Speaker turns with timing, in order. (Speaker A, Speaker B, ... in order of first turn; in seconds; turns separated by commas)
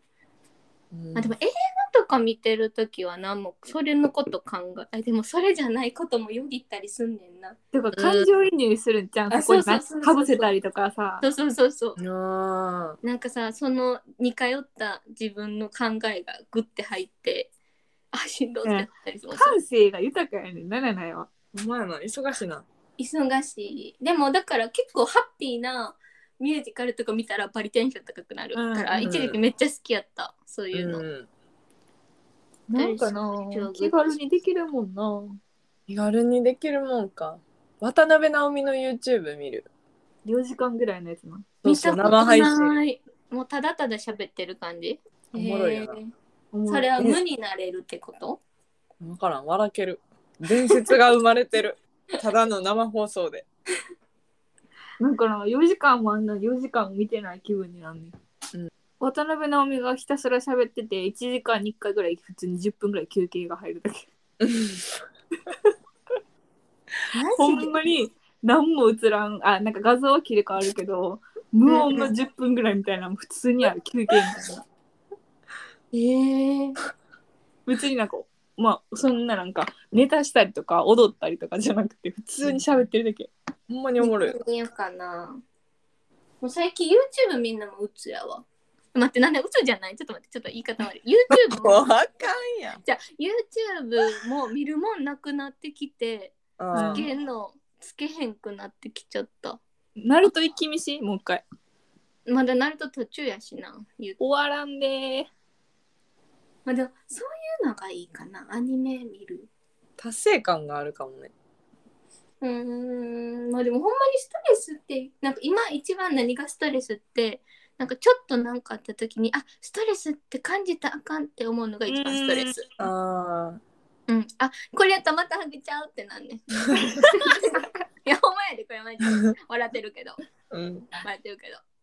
Speaker A: 0.9-1.3, Speaker B: 1.1-7.6, Speaker C: 7.7-11.2, Speaker A: 7.9-8.3, Speaker B: 9.3-10.5, Speaker B: 11.2-12.0, Speaker A: 12.0-13.0, Speaker B: 13.0-17.5, Speaker B: 18.1-19.6, Speaker C: 18.6-21.3, Speaker A: 21.5-22.6, Speaker B: 23.0-31.0, Speaker C: 28.5-29.1, Speaker A: 29.0-29.4, Speaker A: 30.7-31.3, Speaker C: 32.7-35.4, Speaker B: 32.8-34.2, Speaker A: 35.9-39.7, Speaker C: 40.2-41.5, Speaker A: 41.6-42.8, Speaker B: 41.6-46.1, Speaker A: 45.3-46.0, Speaker C: 46.5-47.1, Speaker B: 46.7-48.4, Speaker A: 49.0-53.5, Speaker C: 55.0-58.1, Speaker C: 59.0-64.1, Speaker A: 64.4-65.0, Speaker B: 67.1-67.7, Speaker C: 67.4-74.7, Speaker B: 71.7-72.0, Speaker B: 75.9-76.8, Speaker C: 77.7-83.3, Speaker A: 82.4-82.7, Speaker A: 83.7-84.4, Speaker B: 84.0-85.4, Speaker B: 86.4-91.9, Speaker A: 91.3-92.8, Speaker B: 92.8-99.6, Speaker A: 96.6-97.1, Speaker C: 96.7-97.1, Speaker C: 100.0-101.4, Speaker B: 102.3-104.2, Speaker C: 104.2-105.3, Speaker B: 106.7-109.5, Speaker A: 110.0-111.3, Speaker B: 112.4-122.6, Speaker C: 121.9-122.5, Speaker A: 122.8-123.6, Speaker B: 124.1-130.2, Speaker A: 130.5-130.9, Speaker B: 131.0-131.6